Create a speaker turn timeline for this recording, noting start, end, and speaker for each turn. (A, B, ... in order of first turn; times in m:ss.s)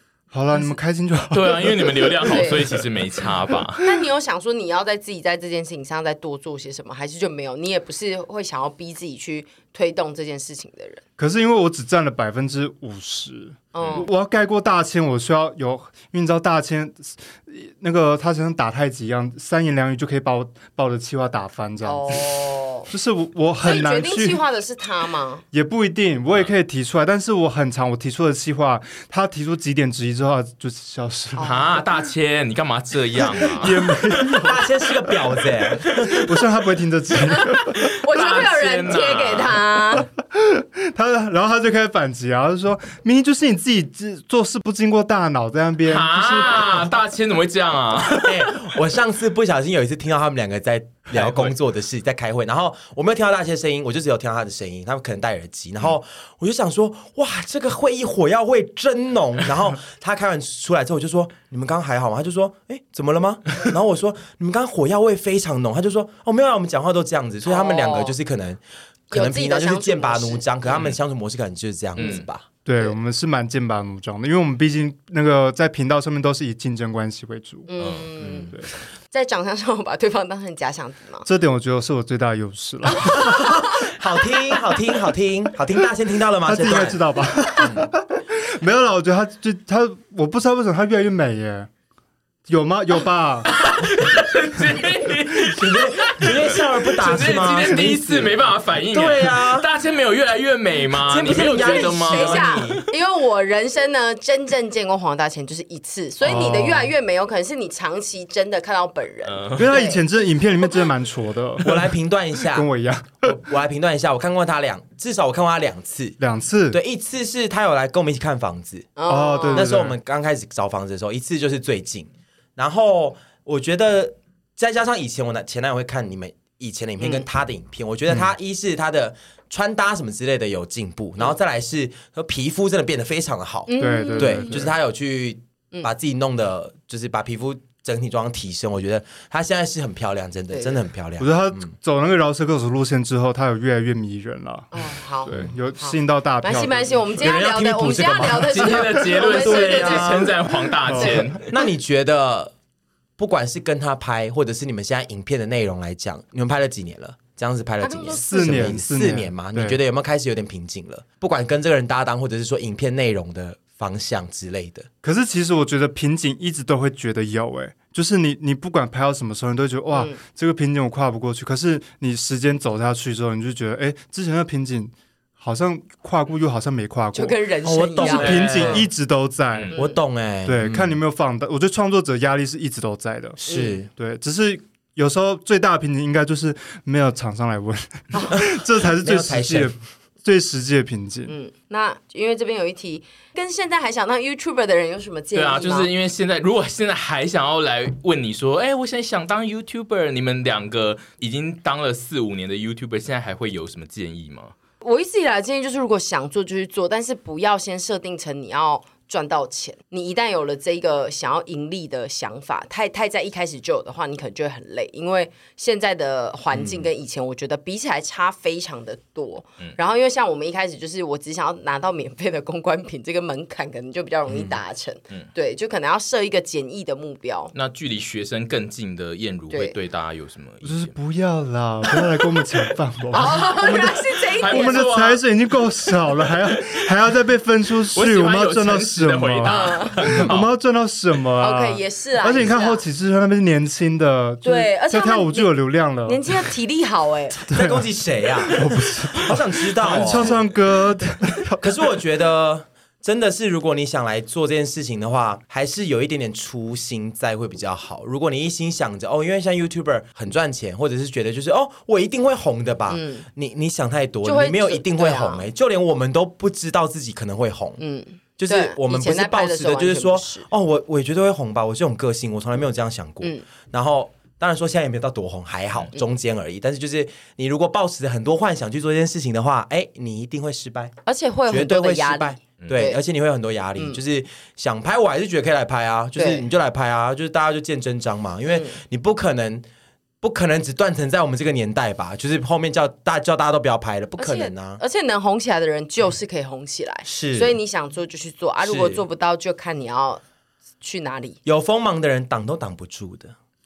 0:00.3-0:02.5 A
0:01.3-0:04.1 B
0:02.2-0:02.7 C
0:03.8-0:11.0 C
0:11.2-0:24.4 A
0:13.7-0:14.1 C
0:13.8-0:14.0 B
0:21.8-0:22.9 C
0:23.6-0:25.4 C
0:25.5-0:31.8 A
0:31.4-0:31.8 C
0:31.4-0:34.0 B
0:33.4-0:35.1 A
0:34.3-0:36.1 D
0:36.0-0:37.9 A
0:37.3-0:40.1 C
0:37.7-0:39.6 B
0:40.0-0:46.9 A
0:45.8-0:48.6 B
0:48.1-1:12.4 D
0:51.1-0:51.5 B
1:07.4-1:08.2 C
1:09.1-1:10.4 C
1:12.0-1:12.2 B
1:12.6-1:17.7 A
1:17.7-1:18.5 C
1:17.8-1:18.5 B
1:19.1-1:21.3 C
1:21.2-1:23.5 A
1:23.0-1:23.4 C
1:23.2-1:27.0 D
1:26.4-1:31.7 A
1:27.6-1:27.9 D
1:32.5-1:33.5 A
1:33.4-1:42.7 B
1:35.5-1:39.7 D
1:41.0-1:42.8 D
1:41.4-1:50.0 C
1:46.2-1:46.9 A
1:49.2-1:49.8 B
1:49.6-1:53.4 A
1:51.6-1:52.7 D
1:53.2-1:56.2 D
1:56.2-1:56.8 A
1:56.7-1:58.9 D
1:59.0-1:59.7 C
1:59.1-2:00.0 A
1:59.5-2:21.7 D
2:07.0-2:07.2 C
2:13.7-2:14.6 C
2:13.7-2:14.7 A
2:20.5-2:20.8 C
2:21.2-2:27.2 A
2:24.7-2:30.3 C
2:27.2-2:30.4 D
2:28.3-2:31.4 B
2:30.8-2:31.3 A
2:31.0-2:31.3 C
2:31.3-2:32.5 D
2:33.2-2:44.9 D
2:37.8-2:38.8 C
2:38.1-2:39.8 A
2:45.0-2:57.4 A
2:49.9-2:50.2 C
2:57.1-2:58.8 C
2:57.6-2:58.8 D
2:58.0-2:59.7 A
2:58.0-2:58.9 B
2:59.7-3:01.0 D
3:00.4-3:03.4 A
3:03.4-3:03.8 C
3:03.5-3:03.9 D
3:03.9-3:11.3 A
3:08.1-3:08.4 C
3:08.3-3:09.7 D
3:11.3-3:15.9 C
3:15.3-3:24.5 B
3:24.8-3:47.5 C
3:36.5-3:36.9 D
3:44.3-3:44.6 D
3:47.5-3:50.9 B
3:50.6-4:06.5 A
3:53.1-3:55.0 C
3:53.7-3:55.2 B
3:55.9-3:56.6 B
3:57.9-4:00.5 B
3:59.5-4:00.2 C
4:01.4-4:02.8 C
4:04.4-4:05.5 C
4:06.0-4:07.4 C
4:07.4-4:07.8 A
4:07.5-4:10.4 D
4:08.5-4:11.7 A
4:11.6-4:27.8 D
4:22.9-4:23.3 C
4:24.2-4:25.5 C
4:27.8-4:30.5 C
4:28.4-4:40.9 D
4:41.0-4:43.0 C
4:41.5-4:49.6 D
4:42.6-4:42.8 B
4:46.2-4:46.5 C
4:48.5-4:48.8 C
4:50.2-4:54.8 D
4:54.2-5:00.2 C
4:57.0-4:57.6 D
4:58.6-4:59.0 D
5:00.8-5:01.4 C
5:01.4-5:03.3 D